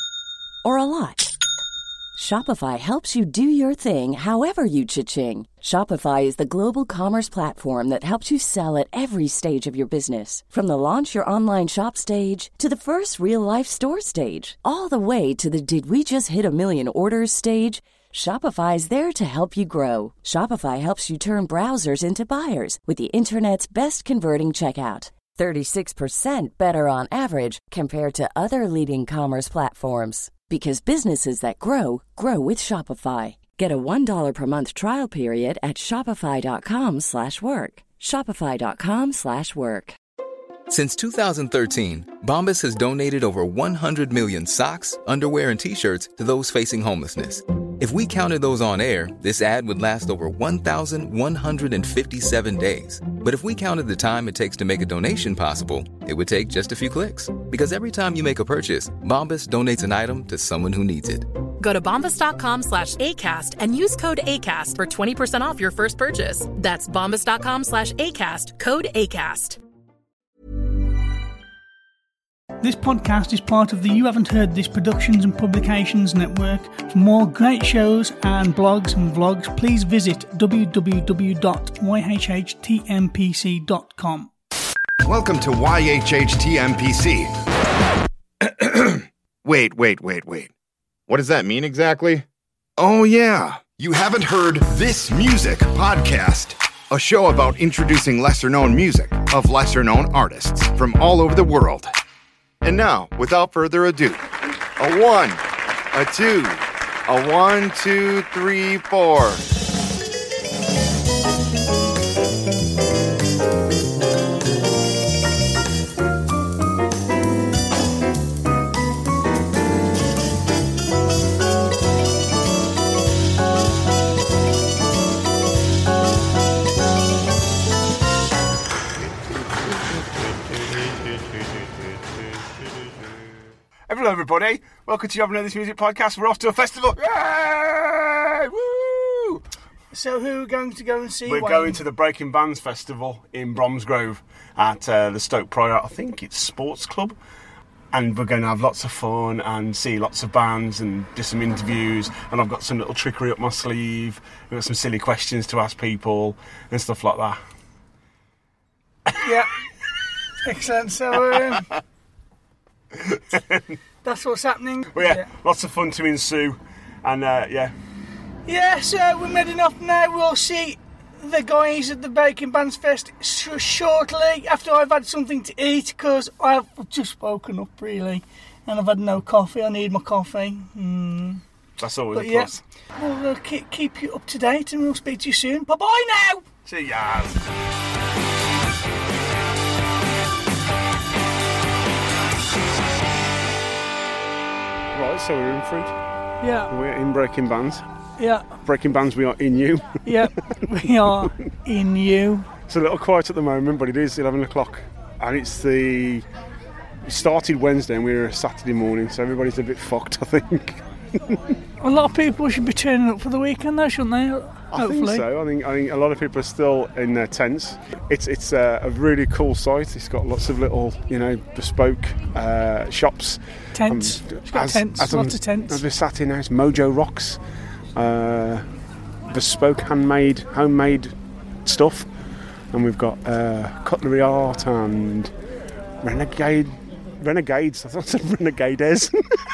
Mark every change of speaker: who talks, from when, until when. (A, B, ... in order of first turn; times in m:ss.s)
0:00.6-0:01.4 A
0:02.2-0:40.0 A
0:40.7-1:01.3 B
1:01.6-1:09.6 C
1:12.6-1:24.3 D
1:25.0-1:27.3 E
1:28.4-1:30.5 E
1:31.1-1:32.2 E
1:32.8-1:41.9 E
1:42.6-1:44.2 E
1:44.8-1:49.4 E
2:13.9-2:19.4 F
2:19.9-2:21.8 D
2:21.2-2:27.2 F
2:27.9-2:37.4 F
2:39.2-2:39.5 D
2:40.4-2:41.7 D
2:43.0-2:43.6 F
2:44.0-2:45.2 D
2:44.9-2:47.7 F
2:48.5-3:01.4 D
3:01.8-3:02.6 F
3:02.1-3:06.4 D
3:06.6-3:07.4 F
3:14.9-3:15.9 F
3:16.4-3:16.7 D
3:16.7-3:17.8 F
3:18.2-3:18.5 D
3:18.6-3:20.2 F
3:20.0-3:22.5 D
3:22.7-3:26.2 F
3:27.0-3:31.4 F
3:31.8-3:35.2 D
3:34.7-3:47.4 F
3:43.7-3:45.8 D
3:47.9-3:48.6 F
3:49.3-3:51.1 F
3:51.6-3:52.1 F
3:52.7-3:55.3 F
3:56.0-3:59.2 F